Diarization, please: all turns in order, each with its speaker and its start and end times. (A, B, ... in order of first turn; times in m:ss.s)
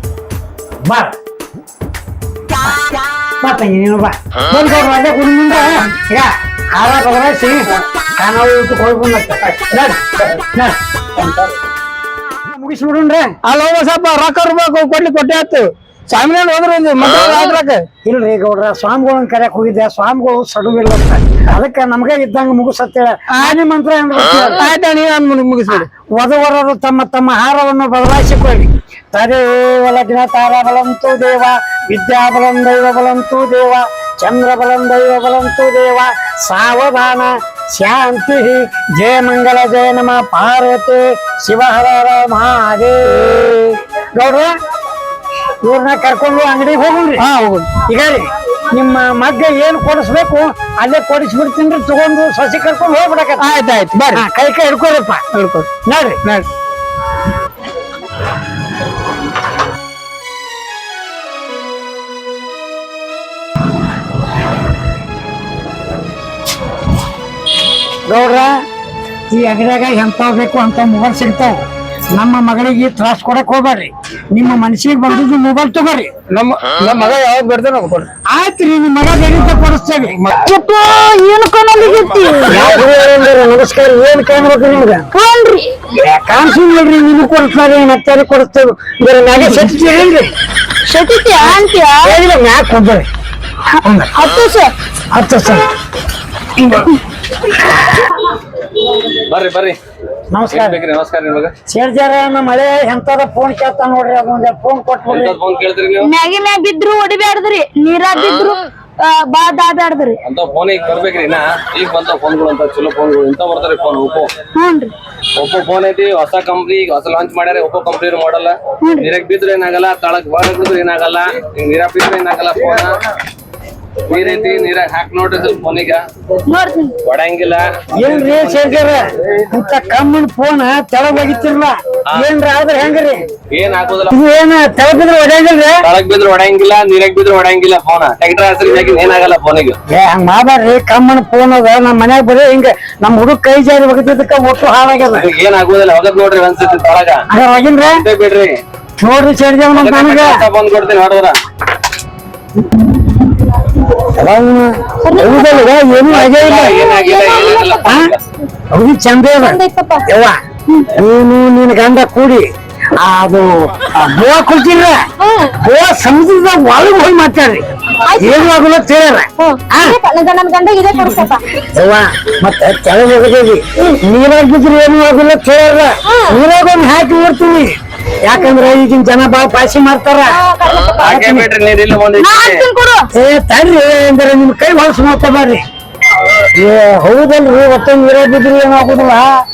0:00.8-0:01.1 A
0:03.4-0:10.8 A
0:12.4-0:13.3 A
0:13.4-0:17.9 B
0:18.0-0:24.7 A
0:24.6-0:25.9 B
0:25.8-0:43.6 A
0:43.2-0:43.8 B
0:44.1-0:44.5 A
0:45.6-0:47.3 A
0:47.2-0:47.8 B
0:47.8-0:53.5 A
0:53.4-0:54.2 B
0:54.1-0:55.2 A
0:55.3-0:55.7 B
0:55.8-0:56.2 A
1:08.1-1:08.5 A
1:09.3-1:11.6 A
1:12.1-1:16.1 A
1:16.3-1:18.1 B
1:18.3-1:20.2 A
1:20.4-1:22.7 C
1:22.5-1:25.1 A
1:25.1-1:25.6 C
1:25.9-1:30.3 A
1:30.9-1:32.1 C
1:31.4-1:33.1 A
1:33.7-1:34.1 A
1:34.2-1:34.7 C
1:35.1-1:35.7 A
1:36.6-1:36.9 C
1:39.2-1:39.8 D
1:40.3-1:40.8 A
1:40.5-1:41.5 D
1:41.7-1:45.4 A
1:45.1-1:46.1 D
1:46.0-1:50.2 C
1:50.2-1:54.3 D
1:54.6-1:54.9 C
1:55.4-2:03.0 D
1:58.8-1:59.1 C
2:04.1-2:06.0 D
2:06.5-2:06.9 C
2:07.0-2:07.6 D
2:08.0-2:13.3 A
2:08.2-2:08.8 D
2:13.5-2:14.2 D
2:14.1-2:15.8 A
2:15.8-2:19.8 D
2:19.9-2:25.3 A
2:25.1-2:27.2 D
2:27.3-2:28.0 A
2:27.9-2:28.6 D
2:29.0-2:30.4 A
2:29.7-2:31.4 D
2:34.0-2:36.8 A
2:35.0-2:35.7 C
2:36.0-2:38.2 D
2:36.7-2:37.9 C
2:37.8-2:38.1 A
2:38.7-2:40.4 A
2:39.4-2:40.1 C
2:40.9-2:45.0 A
2:45.2-2:45.5 C
2:45.6-2:47.6 A
2:48.0-2:48.5 C
2:48.2-2:50.0 A
2:49.4-2:51.4 C
2:51.7-3:00.4 A
2:56.1-2:56.4 C
3:00.2-3:01.2 C
3:01.0-3:02.7 D
3:01.0-3:01.4 A
3:02.2-3:03.1 C
3:03.2-3:05.6 A
3:06.4-3:09.3 A